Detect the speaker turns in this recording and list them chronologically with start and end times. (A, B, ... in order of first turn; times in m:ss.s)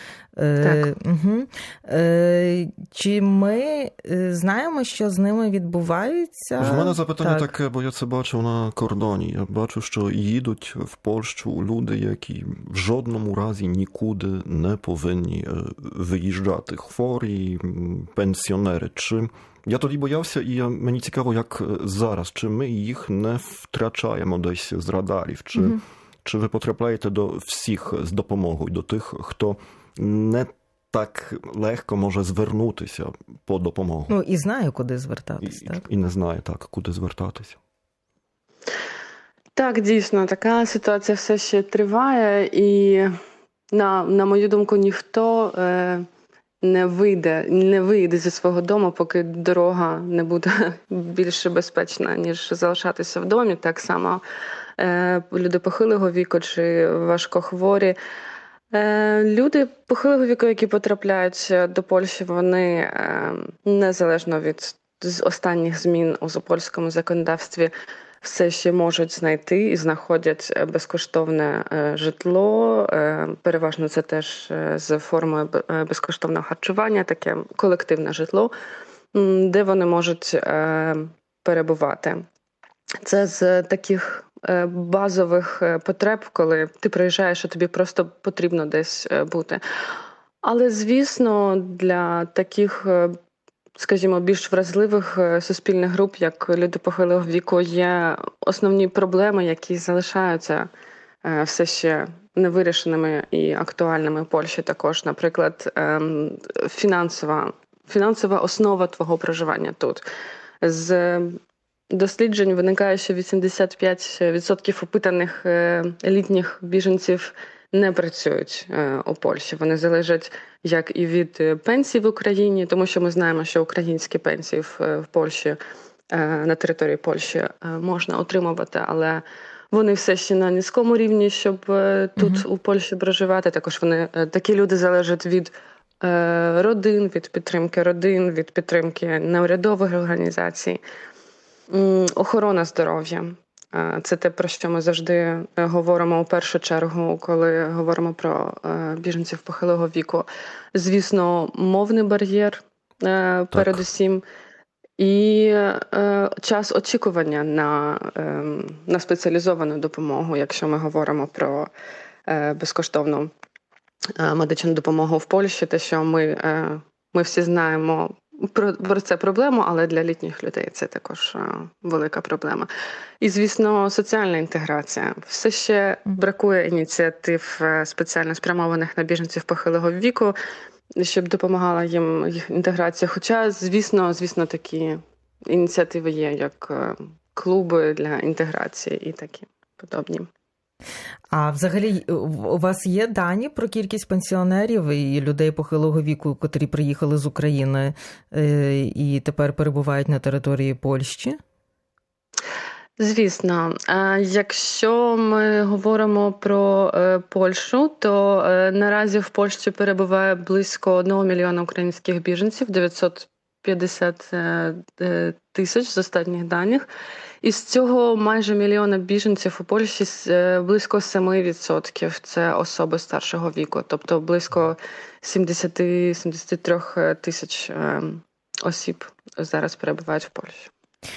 0:00.4-0:07.5 A
0:00.6-0:00.9 B
0:06.6-0:34.1 C
0:34.1-0:35.8 A
0:35.4-0:37.6 C
0:39.6-0:43.1 B
0:43.7-0:46.0 B
0:46.6-0:54.2 B
0:54.8-0:58.0 B
0:58.7-1:07.7 B
1:08.2-1:18.5 B
1:19.1-1:22.2 B
1:23.0-1:29.6 B
1:30.4-1:33.2 B
1:33.8-1:40.7 B
1:41.2-1:50.0 B
1:50.6-1:51.4 B
1:51.9-2:05.6 B
2:06.1-2:20.8 B
2:12.2-2:12.4 A
2:21.7-2:34.2 B
2:33.5-2:33.8 C
2:35.0-2:41.7 B
2:42.3-2:43.3 B
2:44.2-2:52.7 B
2:53.2-3:00.3 B
3:01.0-3:10.3 B
3:11.3-3:21.4 A
3:23.0-3:36.8 B
3:37.4-3:50.7 B